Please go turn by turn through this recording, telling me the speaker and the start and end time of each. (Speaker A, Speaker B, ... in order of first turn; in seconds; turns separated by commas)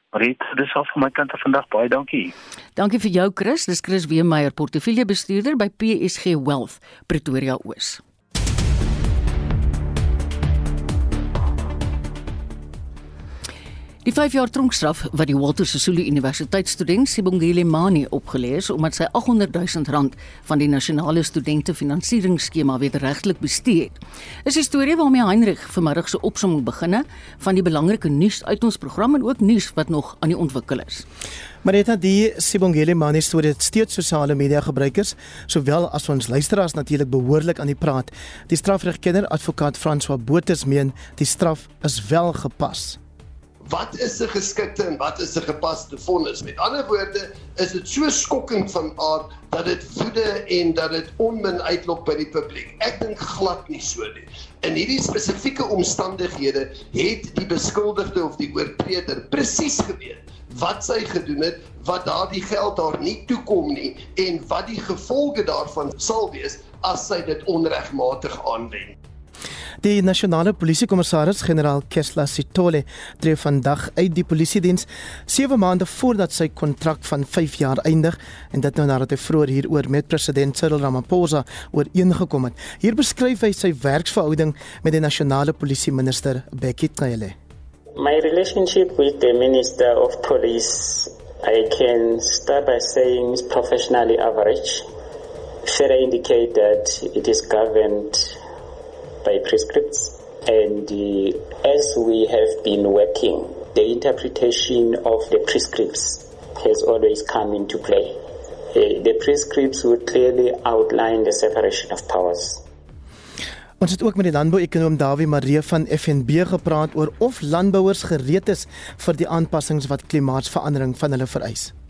Speaker A: 0.1-2.3, Speaker B: 2.8-8.0, Speaker B: 14.1-31.1, Speaker C: 31.6-43.0, Speaker D: 43.6-68.9, Speaker C: 69.8-87.3, Speaker E: 88.0-94.9, Speaker E: 95.7-98.4, Speaker E: 99.2-108.2, Speaker E: 108.7-112.6, Speaker C: 113.8-121.7